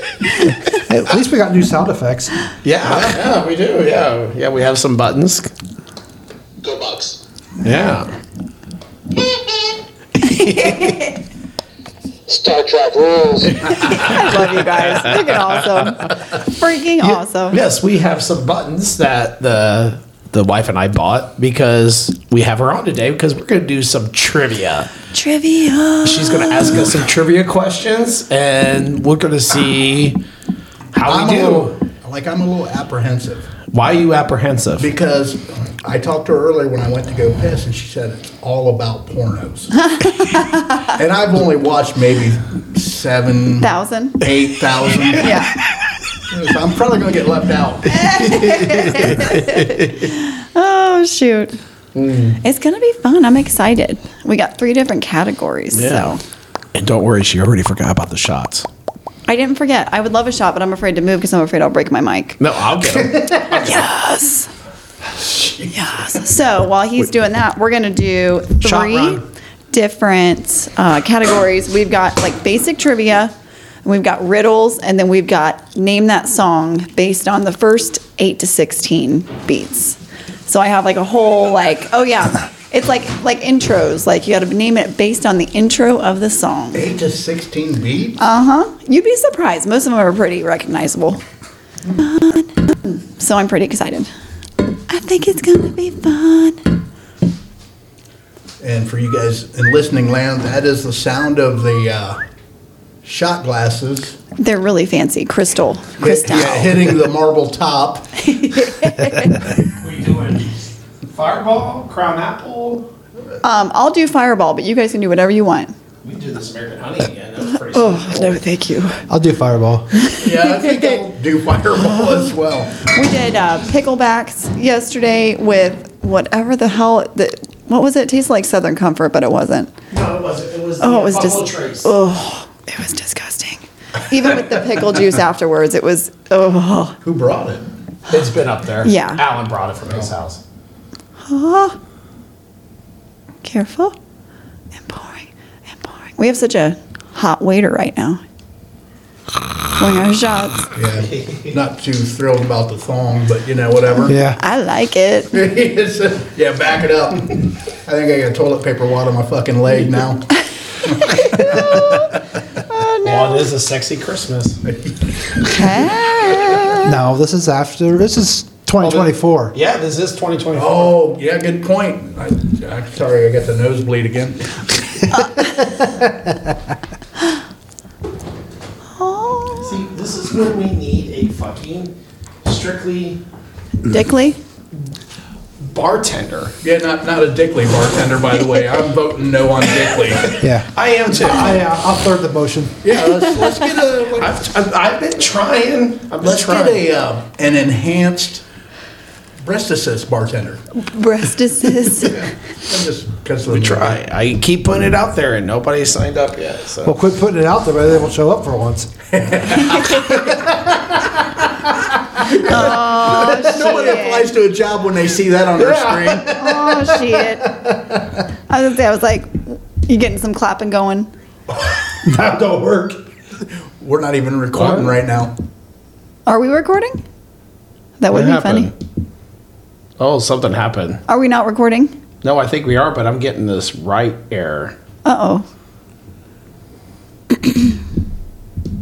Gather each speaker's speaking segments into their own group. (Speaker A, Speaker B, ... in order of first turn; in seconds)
Speaker A: 0.7-2.3, 68.6-69.2, 119.1-119.9, 154.1-154.4, 166.8-169.5, 190.4-190.7, 191.2-192.8, 206.8-208.9, 215.6-218.0, 222.0-223.0
Speaker B: 2.6-5.5, 7.6-8.1, 10.2-11.1, 15.2-15.9, 17.0-24.9, 26.0-30.2, 30.9-31.7, 33.7-34.9, 48.3-49.9, 52.0-52.4, 55.7-56.2, 56.7-58.7, 62.4-63.9, 109.7-112.9, 116.0-118.4, 129.9-131.9, 138.1-140.4, 163.0-164.6, 168.8-171.0, 179.6-181.9, 182.4-183.2, 185.6-186.6, 190.2-191.7, 194.2-196.8, 203.5-207.0, 224.6-224.9, 228.1-228.7, 230.0-231.0, 232.2-234.8
Speaker C: 6.6-7.2, 9.3-9.7, 12.3-13.6
Speaker D: 10.2-11.1, 13.5-17.6, 25.1-26.9, 39.9-40.8, 43.6-44.3, 45.2-45.5, 47.9-51.6, 52.4-56.2, 59.3-62.4, 63.5-64.5, 65.7-73.3, 73.8-86.9, 88.2-91.2, 92.0-94.1, 94.9-96.6, 104.4-107.0, 108.2-109.5, 113.4-115.7, 117.6-119.0, 120.0-120.8, 121.9-129.7, 130.8-137.0, 138.8-139.2, 141.2-141.8, 143.4-143.9, 144.8-148.2, 149.8-150.7, 154.0-155.3, 161.1-163.5, 165.4-166.9, 175.1-175.6, 179.0-179.8, 183.8-184.4, 200.8-202.3, 209.7-210.1, 212.3-214.3, 216.4-217.5, 218.5-221.1, 226.3-227.0, 228.0-228.7, 231.1-231.9, 235.1-235.5
Speaker E: 31.0-33.5, 34.8-39.8, 40.9-45.3, 46.3-49.3, 65.2-65.7, 86.7-88.2, 98.6-102.2, 103.0-104.2, 106.0-108.1, 120.2-122.8, 137.0-137.7, 150.7-154.2, 155.3-162.0, 164.7-165.0, 170.5-174.4, 186.6-190.3, 192.8-194.3, 196.2-198.4, 199.4-200.6, 202.5-204.0, 209.1-211.1, 211.8-216.7, 223.8-225.3